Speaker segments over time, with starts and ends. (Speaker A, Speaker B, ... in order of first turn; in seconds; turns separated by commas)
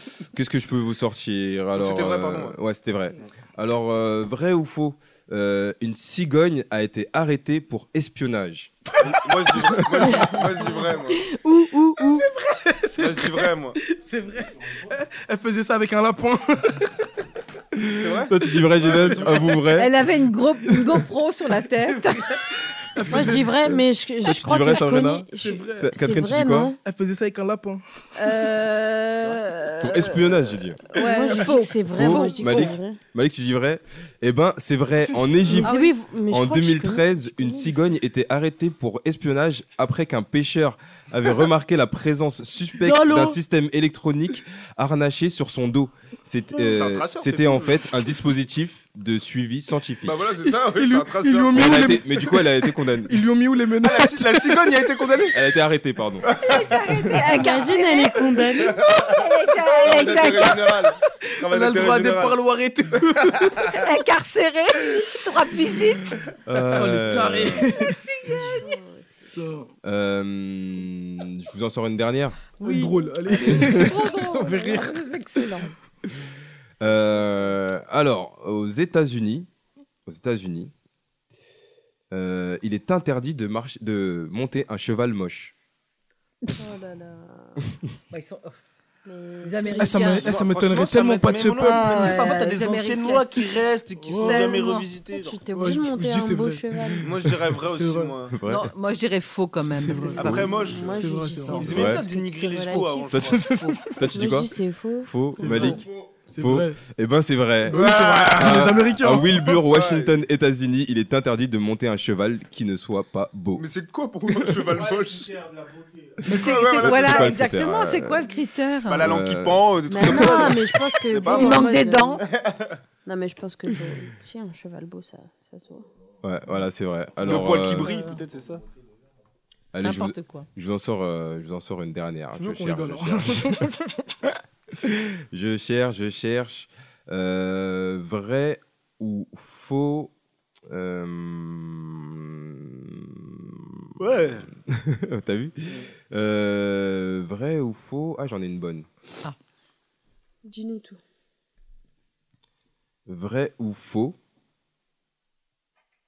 Speaker A: 0.3-8.7, Speaker B: 1.8-2.6, Speaker B: 9.0-11.2, Speaker C: 9.5-10.7, Speaker D: 10.1-12.2, Speaker C: 12.0-17.1, Speaker B: 13.0-13.8, Speaker A: 17.8-19.9, Speaker B: 17.9-18.3, Speaker C: 18.8-19.6, Speaker E: 19.7-22.4, Speaker C: 21.8-23.5, Speaker D: 23.1-26.8, Speaker A: 24.2-26.7, Speaker C: 25.3-26.1, Speaker C: 26.8-28.5, Speaker E: 28.1-32.7, Speaker A: 29.8-30.9, Speaker D: 30.9-33.0, Speaker A: 31.9-50.3, Speaker D: 35.5-38.0, Speaker E: 35.6-36.0, Speaker C: 42.8-43.4, Speaker B: 46.6-48.1, Speaker B: 50.0-51.9, Speaker C: 50.6-54.8, Speaker A: 51.5-53.2, Speaker B: 53.8-55.4, Speaker A: 55.3-56.3, Speaker B: 56.2-57.1, Speaker E: 56.4-58.2, Speaker D: 57.1-58.8, Speaker B: 58.5-59.0, Speaker E: 59.0-60.9, Speaker B: 59.8-62.4, Speaker C: 61.4-63.8, Speaker E: 63.7-66.2, Speaker A: 66.5-67.7, Speaker C: 66.7-68.3, Speaker D: 68.2-69.6, Speaker C: 69.3-69.7, Speaker A: 69.8-72.4, Speaker C: 72.6-75.5, Speaker D: 72.6-75.7, Speaker E: 72.6-72.9, Speaker A: 73.5-74.0, Speaker E: 73.8-75.6, Speaker D: 76.8-77.6, Speaker A: 76.8-79.5, Speaker A: 80.0-80.7, Speaker A: 82.1-85.5, Speaker D: 86.5-87.7, Speaker E: 88.1-88.6, Speaker D: 89.0-90.2, Speaker E: 89.4-90.3, Speaker C: 89.8-92.2, Speaker B: 90.2-95.4, Speaker E: 91.6-93.6, Speaker C: 94.0-94.5, Speaker E: 94.1-94.9, Speaker D: 94.7-97.1, Speaker C: 95.5-97.0, Speaker B: 97.0-98.3, Speaker C: 97.7-98.1, Speaker A: 98.4-98.7, Speaker E: 98.4-100.7, Speaker C: 99.6-101.7, Speaker B: 100.2-103.5, Speaker D: 100.3-103.5, Speaker A: 101.6-102.0, Speaker A: 103.1-105.8, Speaker E: 103.4-104.0, Speaker D: 104.1-105.7, Speaker C: 105.4-106.8, Speaker E: 105.5-105.8, Speaker A: 106.3-113.7, Speaker C: 107.7-109.4, Speaker B: 107.7-110.1, Speaker B: 113.5-115.3, Speaker A: 114.3-114.7, Speaker E: 116.2-119.0, Speaker B: 116.3-117.3, Speaker A: 116.8-118.3, Speaker B: 118.9-121.7, Speaker A: 119.0-120.7, Speaker D: 119.9-122.2, Speaker E: 121.3-122.2, Speaker B: 122.2-122.7, Speaker D: 123.0-125.8, Speaker A: 126.2-127.9, Speaker B: 127.2-128.6, Speaker E: 127.8-128.2, Speaker A: 129.7-133.6, Speaker E: 129.8-130.5, Speaker C: 132.3-134.0, Speaker A: 134.3-140.1, Speaker A: 140.7-143.9, Speaker B: 144.0-144.5, Speaker A: 144.7-148.9, Speaker D: 150.4-151.0, Speaker A: 153.1-154.2